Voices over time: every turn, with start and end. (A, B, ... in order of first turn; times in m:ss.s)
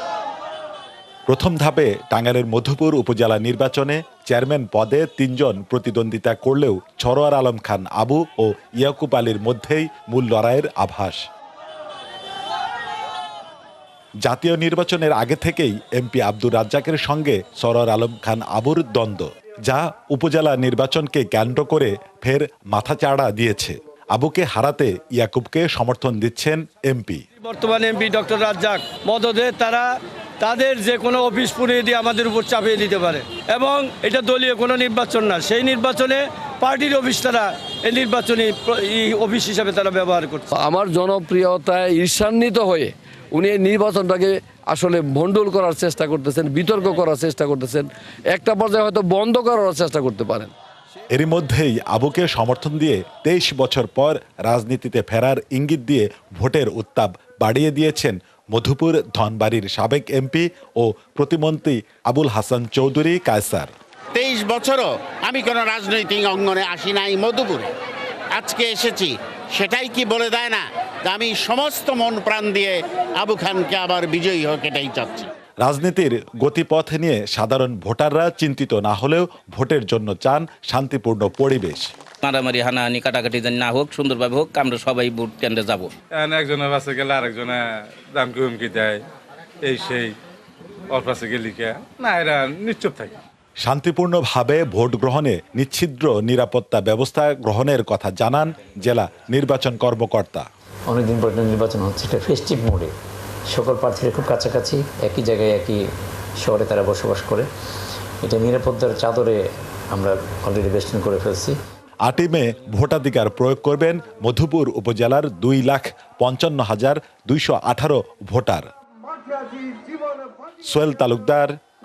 0:01.3-0:11.2 A
0:14.2-0:27.2 A
0:27.4-0:29.8 B
0:30.4-0:40.5 B
0:40.5-0:50.5 C
0:51.1-1:03.7 A
1:04.1-1:07.7 D
1:08.3-1:15.3 D
1:15.6-1:21.8 A
1:22.2-1:25.9 E
1:26.1-1:29.0 F
1:29.6-1:30.2 F
1:30.9-1:33.1 F
1:33.6-1:40.4 A
1:40.9-1:42.9 G
1:43.5-1:45.8 G
1:46.4-1:47.4 G
1:48.2-1:49.4 G
1:49.9-1:51.5 G
1:52.0-1:58.6 A
2:00.7-2:01.5 A